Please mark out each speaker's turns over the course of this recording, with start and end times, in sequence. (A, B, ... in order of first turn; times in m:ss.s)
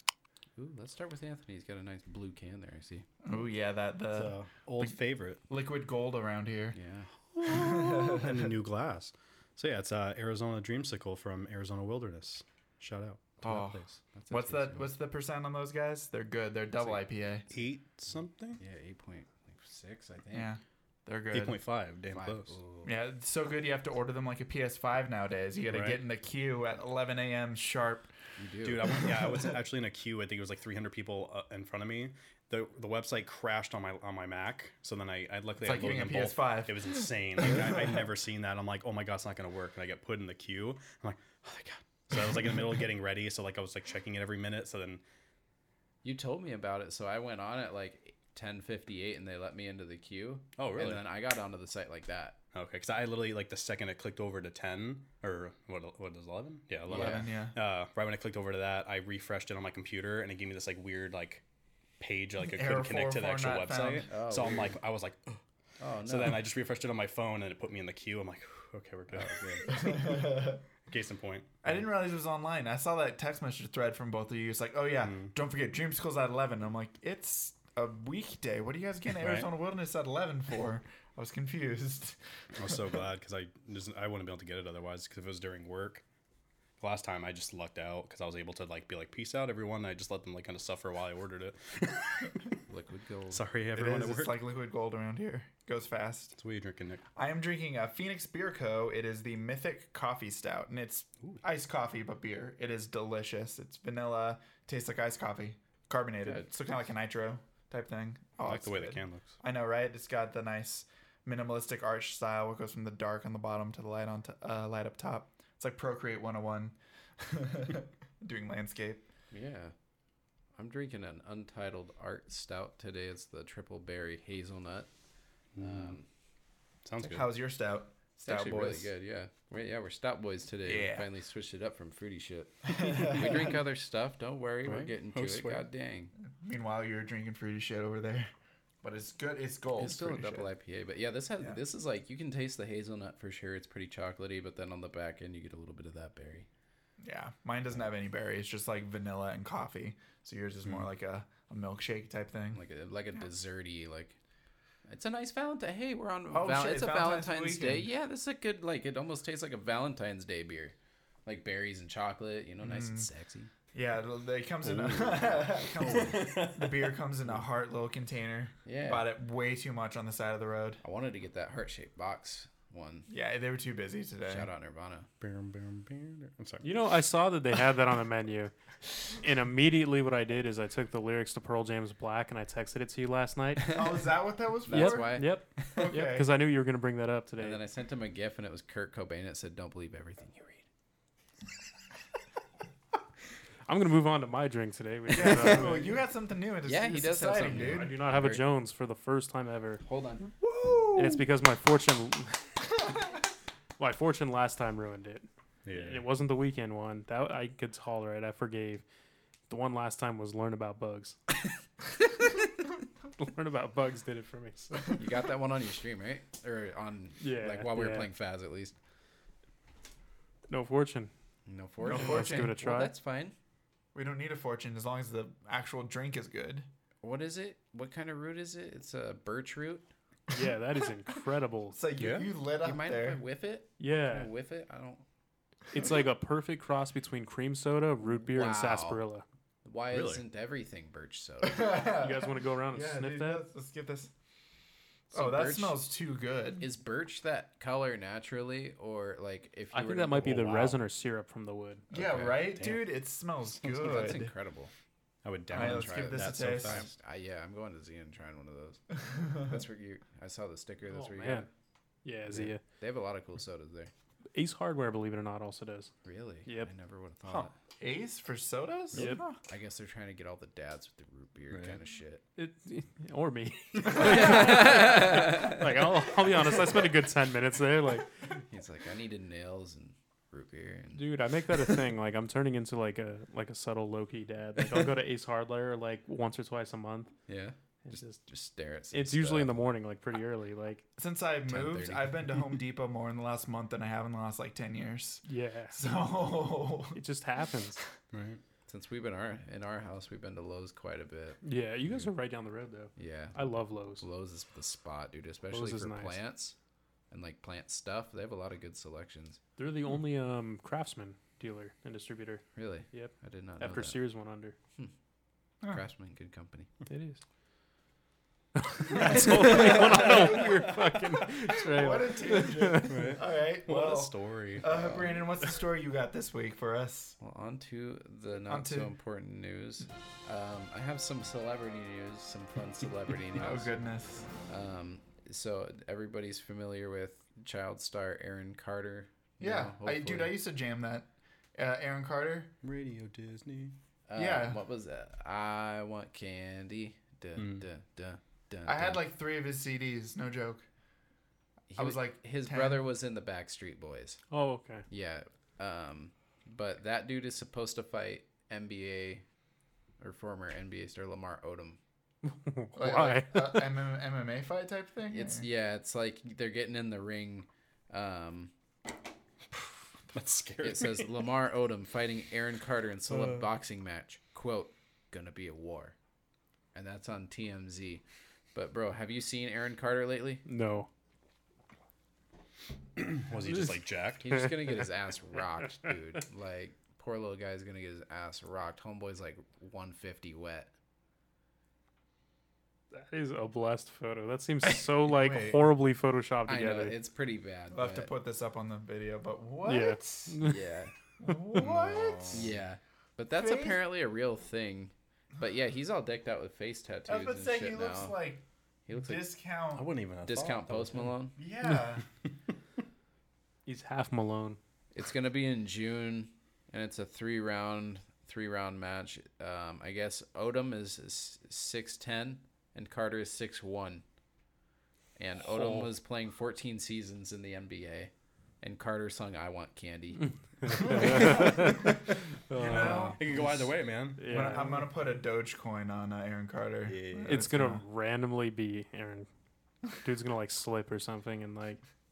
0:00.6-0:03.1 A
0:03.2-0:06.8 B
0:04.1-0:05.4 C
0:06.7-0:07.1 A
0:07.4-0:13.9 C
0:07.4-0:08.5 B
0:13.4-0:17.5 B
0:14.1-0:15.0 A
0:17.5-0:18.6 C
0:18.6-0:20.5 A
0:20.3-0:21.6 B
0:21.3-0:22.6 C
0:22.1-0:22.9 A
0:22.8-0:28.1 B
0:25.7-0:26.0 C
0:28.4-0:29.0 A
0:28.6-0:45.0 C
0:29.1-0:29.4 B
0:35.6-0:37.9 B
0:46.0-0:52.4 A
0:50.6-0:51.0 C
0:52.5-1:01.4 C
0:56.9-0:57.3 A
0:56.9-0:57.6 B
1:02.0-1:05.4 C
1:02.4-1:04.1 B
1:04.1-1:04.8 A
1:05.8-1:06.4 A
1:06.0-1:10.2 C
1:09.1-1:09.7 A
1:09.7-1:10.6 B
1:10.9-1:11.5 C
1:11.6-1:22.2 B
1:15.0-1:15.3 C
1:19.1-1:19.5 C
1:22.6-1:26.0 C
1:26.8-1:32.6 C
1:32.7-1:33.4 A
1:33.3-1:34.4 C
1:33.8-1:36.4 B
1:36.4-1:37.0 C
1:37.2-1:59.1 B
1:48.4-1:49.4 C
1:59.3-1:59.7 A
2:00.6-2:04.9 A
2:05.6-2:06.0 C
2:05.6-2:06.1 A
2:06.8-2:07.3 C
2:07.0-2:08.9 B
2:08.2-2:16.1 A
2:10.6-2:11.1 B
2:12.7-2:13.5 B
2:14.7-2:15.6 C
2:16.4-2:18.3 B
2:18.8-2:20.5 B
2:19.8-2:26.5 A
2:27.0-2:32.6 B
2:32.5-2:34.2 A
2:34.9-2:43.5 A
2:36.3-2:37.9 B
2:42.6-2:43.1 B
2:43.7-2:50.8 B
2:44.6-2:47.0 C
2:45.8-2:46.1 A
2:48.6-2:49.1 A
2:50.8-2:53.1 A
2:53.1-2:54.5 B
2:54.3-2:55.1 A
2:55.2-2:56.7 C
2:56.6-2:58.5 D
2:59.1-3:03.8 D
3:03.7-3:06.3 B
3:04.7-3:05.4 A
3:04.7-3:07.6 D
3:07.4-3:10.6 A
3:13.7-3:15.9 D
3:15.1-3:18.0 B
3:16.6-3:18.4 A
3:17.6-3:19.8 D
3:19.8-3:20.3 A
3:20.3-3:21.2 B
3:21.0-3:22.8 D
3:23.8-3:28.8 D
3:25.6-3:26.0 C
3:29.5-3:31.2 D
3:33.2-3:35.0 D
3:35.0-3:38.8 A
3:37.2-3:38.1 D
3:40.5-3:41.1 D
3:41.5-3:43.4 A
3:41.8-3:42.9 D
3:41.8-3:42.5 B
3:43.9-3:46.7 B
3:47.0-3:49.9 A
3:50.3-3:51.8 D
3:51.7-3:53.2 B
3:52.0-3:52.3 C
3:52.6-3:55.0 A
3:53.8-3:54.3 D
3:55.7-3:59.2 D
3:58.3-3:59.0 A
3:59.6-4:01.8 A
3:59.9-4:00.2 C
4:01.4-4:04.1 B
4:02.0-4:03.4 D
4:05.1-4:05.8 A
4:05.1-4:06.7 B
4:06.6-4:10.8 A
4:09.7-4:11.9 D
4:11.9-4:14.3 B
4:12.0-4:12.8 C
4:13.6-4:14.7 A
4:15.2-4:16.9 C
4:15.5-4:21.5 A
4:15.5-4:16.9 B
4:20.9-4:21.5 D
4:22.0-4:22.6 D
4:22.3-4:23.9 A
4:24.4-4:25.9 D
4:26.0-4:27.5 A
4:27.8-4:29.4 B
4:29.0-4:29.2 D
4:29.5-4:32.2 A
4:31.5-4:31.8 C
4:32.4-4:38.2 D
4:33.9-4:35.6 A
4:38.5-4:41.1 A
4:41.0-4:47.1 D
4:47.3-4:49.5 A
4:47.9-4:48.2 D
4:48.9-4:50.9 D
4:51.0-4:57.0 B
4:51.5-4:52.2 A
4:55.3-4:55.9 D
4:57.0-4:57.8 D
4:58.1-4:58.4 C
4:58.7-5:01.4 A
5:01.4-5:04.0 D
5:03.0-5:06.6 A
5:05.5-5:06.2 D
5:07.1-5:09.4 A
5:09.6-5:14.6 D
5:12.6-5:14.0 A
5:15.7-5:16.7 A
5:16.9-5:17.2 D
5:18.6-5:23.1 D
5:18.9-5:20.6 B
5:19.1-5:21.3 C
5:21.5-5:27.2 B
5:22.8-5:24.7 C
5:24.6-5:25.3 A
5:27.2-5:33.7 A
5:28.5-5:28.9 B
5:33.3-5:34.3 B
5:34.5-5:40.3 A
5:39.4-5:42.5 B
5:42.6-5:43.8 C
5:44.1-5:49.1 A
5:44.2-5:44.6 B
5:47.4-5:47.6 C
5:48.7-5:50.6 B
5:51.7-5:54.2 A
5:51.8-5:52.8 B
5:54.3-5:54.8 D
5:54.9-5:59.2 A
6:00.0-6:01.8 A
6:02.3-6:03.7 D
6:02.7-6:05.5 B
6:05.1-6:08.5 A
6:10.1-6:11.1 C
6:10.6-6:16.0 A
6:13.1-6:13.4 C
6:16.7-6:20.4 A
6:20.4-6:20.9 D
6:23.0-6:24.5 C
6:24.2-6:30.7 A
6:32.9-6:37.0 D
6:34.7-6:35.7 B
6:36.5-6:38.1 A
6:37.7-6:40.4 B
6:39.6-6:40.6 D
6:40.4-6:40.9 A
6:41.2-6:42.5 B
6:41.5-6:42.5 C
6:42.3-6:48.2 A
6:43.3-6:43.8 B
6:47.1-6:48.4 B
6:48.9-6:49.3 A
6:48.9-6:49.9 B
6:49.7-6:51.1 C
6:50.3-6:51.4 A
6:51.4-6:52.0 B
6:53.7-6:54.6 D
6:54.9-7:04.0 A
7:05.2-7:11.8 A
7:05.5-7:05.9 C
7:10.6-7:13.2 D
7:10.9-7:11.8 B
7:12.6-7:17.8 B
7:12.6-7:14.5 C
7:14.2-7:14.8 D
7:16.9-7:17.5 C
7:17.3-7:19.3 D
7:20.0-7:21.8 D